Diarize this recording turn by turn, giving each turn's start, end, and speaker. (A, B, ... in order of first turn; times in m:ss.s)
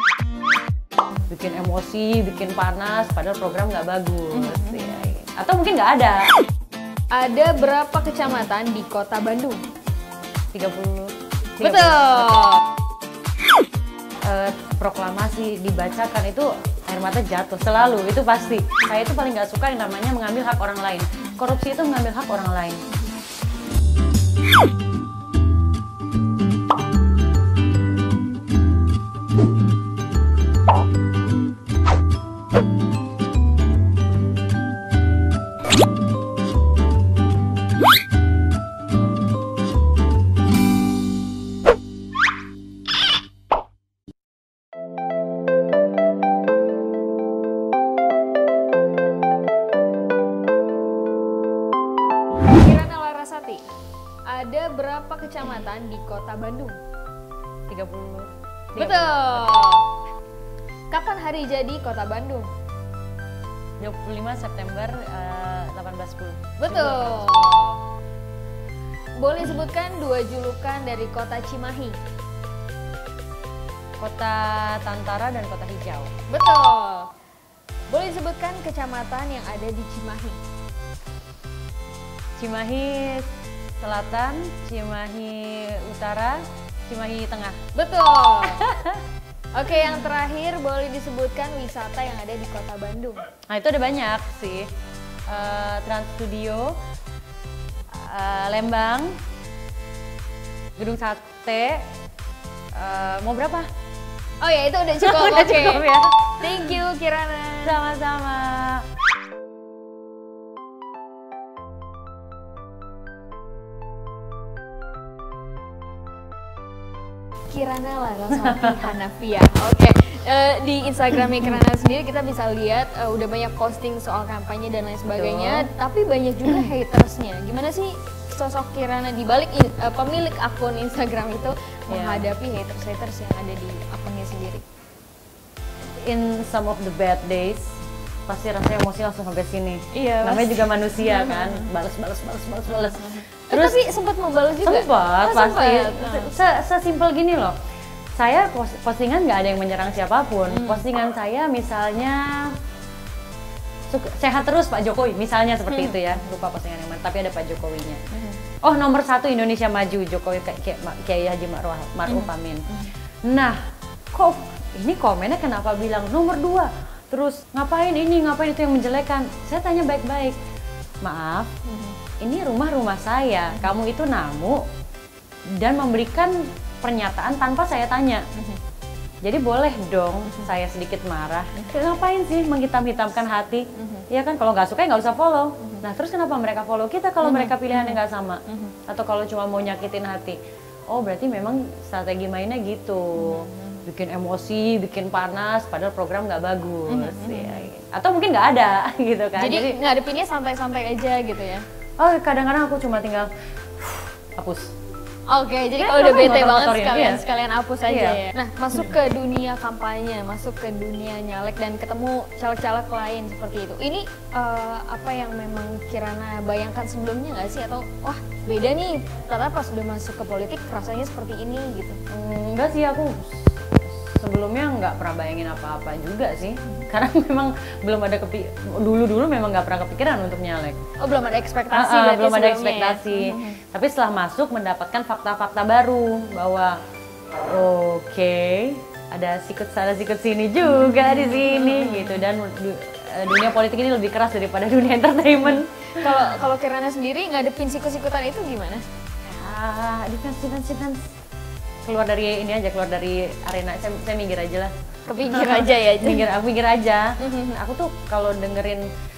0:01.3-0:06.3 A
0:04.3-0:05.0 B
0:07.1-0:09.6 B
0:10.5-0:12.5 A
0:11.6-0:12.6 B
0:14.2-0:22.8 A
0:52.4-0:53.6 B
0:54.3-0:56.8 B
0:57.7-0:59.7 A
0:58.8-0:59.8 B
1:00.9-1:02.5 B
1:03.8-1:07.6 A
1:06.6-1:07.8 B
1:09.2-1:12.0 B
1:14.0-1:16.1 A
1:16.3-1:17.1 B
1:17.9-1:20.4 B
1:22.4-1:27.6 A
1:27.7-1:28.6 B
1:28.5-1:29.0 A
1:29.5-1:33.2 B
1:33.5-1:34.7 A
1:35.3-1:36.8 A
1:37.9-1:39.2 A
1:40.8-1:41.8 A
1:42.7-1:43.7 A
1:44.4-1:47.8 B
1:45.0-1:46.8 A
1:47.6-1:48.8 A
1:57.5-2:14.6 B
2:05.0-2:05.7 A
2:11.9-2:12.2 A
2:16.0-2:23.8 A
2:19.9-2:21.7 B
2:22.7-2:26.3 B
2:24.6-2:27.6 A
2:28.2-2:32.5 A
2:30.5-2:30.8 B
2:33.9-2:38.0 A
2:35.7-2:36.0 B
2:38.1-2:38.4 B
2:38.6-2:42.7 A
2:42.1-2:42.9 B
2:43.2-2:43.6 A
2:44.1-2:50.4 A
2:51.0-2:51.5 A
2:51.6-2:52.0 B
2:52.2-2:54.6 A
2:55.6-2:58.3 A
2:59.2-3:10.4 A
3:07.2-3:08.7 B
3:10.9-3:19.8 A
3:13.2-3:13.8 B
3:16.8-3:17.7 B
3:19.4-3:21.7 B
3:22.0-3:23.3 A
3:23.8-3:24.7 A
3:25.3-3:42.0 B
3:25.8-3:27.2 A
3:27.9-3:28.2 A
3:42.1-3:50.8 A
3:51.0-3:53.6 B
3:51.7-3:56.8 A
3:57.4-4:06.3 A
4:00.7-4:02.2 B
4:05.4-4:08.8 B
4:09.2-4:11.0 A
4:11.8-4:18.9 A
4:15.1-4:16.3 B
4:17.2-4:17.6 B